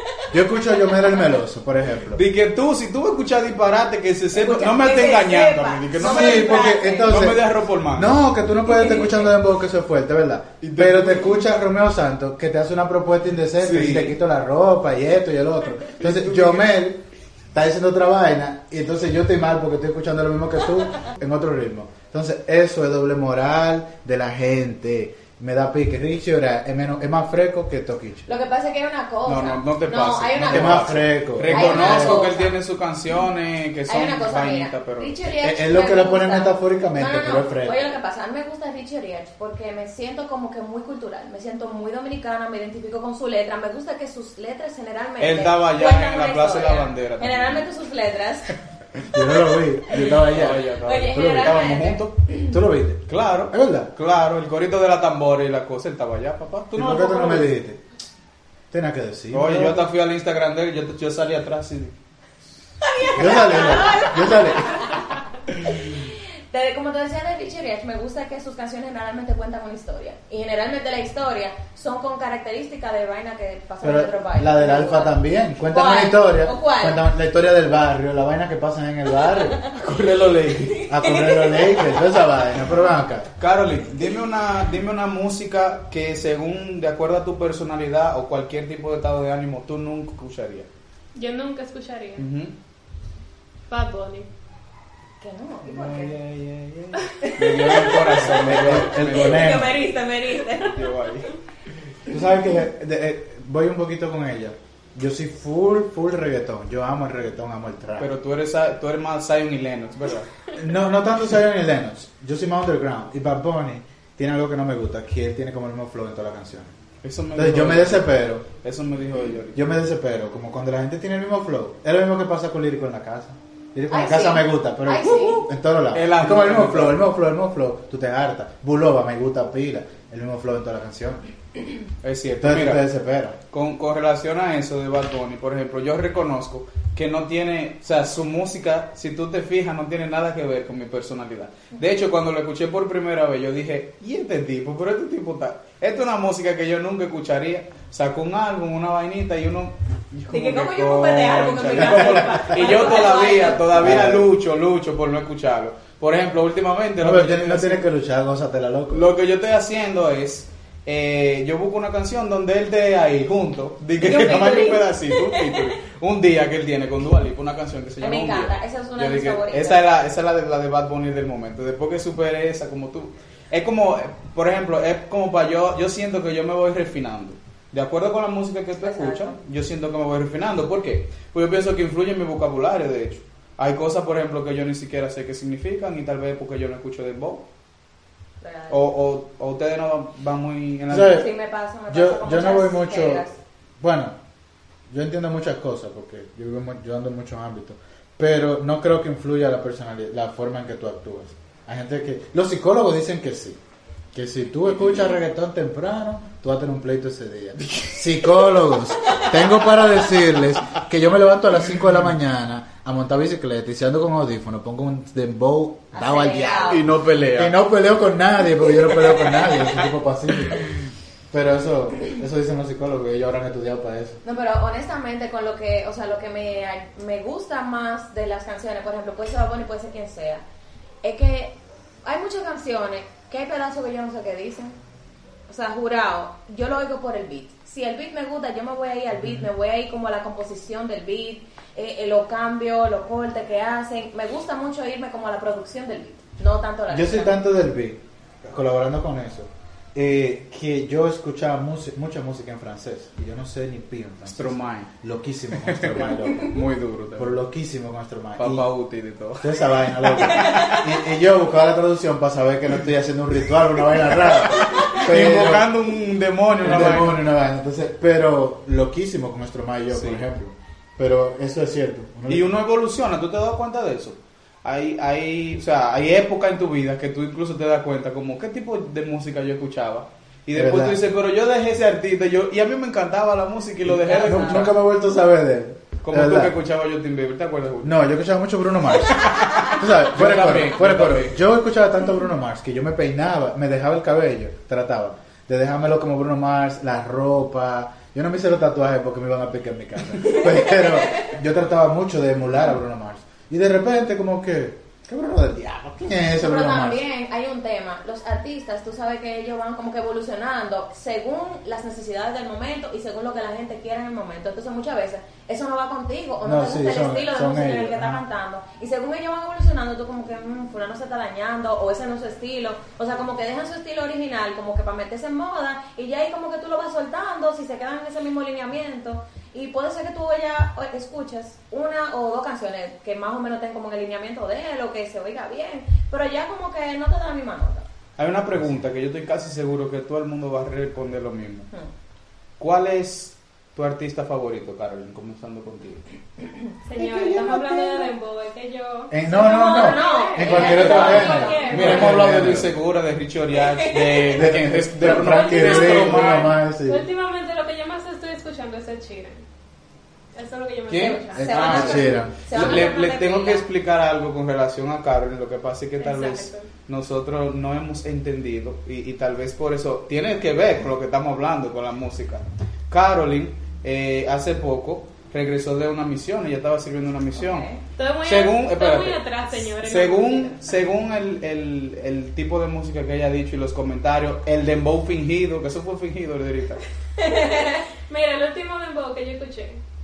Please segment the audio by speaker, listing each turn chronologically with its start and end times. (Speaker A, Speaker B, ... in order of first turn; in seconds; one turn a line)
Speaker A: 0.3-2.2
Speaker B: 0.9-1.2
Speaker C: 2.1-8.2
Speaker B: 4.3-7.2
Speaker A: 6.0-17.0
Speaker C: 10.6-11.4
Speaker C: 13.6-14.2
Speaker C: 16.0-16.8
Speaker A: 17.5-28.3
Speaker B: 28.3-32.6
Speaker C: 29.3-35.1
Speaker A: 30.4-32.2
Speaker B: 33.9-48.6
Speaker A: 35.4-37.9
Speaker C: 45.2-47.7
Speaker A: 49.1-50.6
Speaker C: 49.9-52.1
Speaker B: 50.7-52.5
Speaker A: 51.2-51.5
Speaker A: 52.5-53.9
Speaker C: 53.1-57.5
Speaker A: 56.8-57.8
Speaker A: 58.7-59.9
Speaker C: 59.3-61.9
Speaker B: 62.8-65.1
Speaker A: 63.1-64.9
Speaker B: 65.8-77.0
Speaker A: 73.8-79.6
Speaker B: 79.3-79.8
Speaker C: 79.7-80.9
Speaker B: 80.6-82.1
Speaker A: 80.9-83.3
Speaker C: 83.4-90.7
Speaker D: 91.2-92.3
Speaker C: 92.2-92.5
Speaker D: 93.7-94.3
Speaker B: 95.2-96.2
Speaker C: 95.7-99.8
Speaker B: 97.2-101.1
Speaker A: 98.3-99.8
Speaker C: 100.6-101.3
Speaker A: 102.1-108.1
Speaker C: 108.0-110.3
Speaker A: 110.5-116.7
Speaker C: 117.0-119.7
Speaker A: 117.3-118.5
Speaker A: 119.5-131.2
Speaker B: 123.9-125.5
Speaker C: 125.9-127.0
Speaker C: 132.0-132.8
Speaker A: 132.4-133.4
Speaker C: 133.5-157.8
Speaker B: 150.3-153.9
Speaker A: 151.8-152.3
Speaker A: 153.8-154.3
Speaker A: 157.0-159.1
Speaker C: 158.9-187.4
Speaker B: 164.0-165.7
Speaker B: 168.0-169.9
Speaker B: 178.8-179.4
Speaker B: 188.4-188.8
Speaker C: 188.7-191.2
Speaker A: 190.9-191.3
Speaker B: 191.1-193.4
Speaker A: 191.9-193.2
Speaker A: 193.8-194.2
Speaker A: 194.9-203.6
Speaker A: 204.1-220.7
Speaker C: 207.7-208.1
Speaker B: 215.9-216.9
Speaker C: 216.6-217.6
Speaker A: 221.3-224.2
Speaker B: 224.2-230.4
Speaker B: 231.0-234.8
Speaker B: 235.5-247.4
Speaker A: 239.2-239.5
Speaker A: 246.9-256.6
Speaker C: 254.3-254.9
Speaker C: 255.5-257.3
Speaker A: 257.2-258.7
Speaker C: 258.4-260.9
Speaker A: 259.4-265.7
Speaker C: 264.3-267.3
Speaker A: 266.6-272.5
Speaker C: 269.9-270.2
Speaker C: 272.3-284.8
Speaker A: 280.5-281.0
Speaker A: 283.9-286.6
Speaker B: 284.0-284.7
Speaker C: 286.0-288.0
Speaker A: 287.8-307.0
Speaker C: 289.2-291.4
Speaker B: 300.4-301.3
Speaker B: 306.4-337.9
Speaker A: 316.4-318.2
Speaker C: 338.2-341.7
Speaker C: 342.6-346.1
Speaker D: 346.9-352.2
Speaker B: 347.0-348.1
Speaker A: 349.1-352.7
Speaker B: 349.3-352.2
Speaker C: 350.4-356.6
Speaker B: 353.6-354.5
Speaker A: 354.3-357.1
Speaker D: 355.0-359.4
Speaker D: 360.4-362.8
Speaker C: 360.9-377.7
Speaker B: 361.3-363.7
Speaker A: 361.3-362.4
Speaker D: 366.0-366.7
Speaker B: 377.4-377.8
Speaker D: 378.0-380.7
Speaker C: 378.2-379.2
Speaker C: 379.8-386.8
Speaker B: 387.2-387.9
Speaker D: 388.1-389.8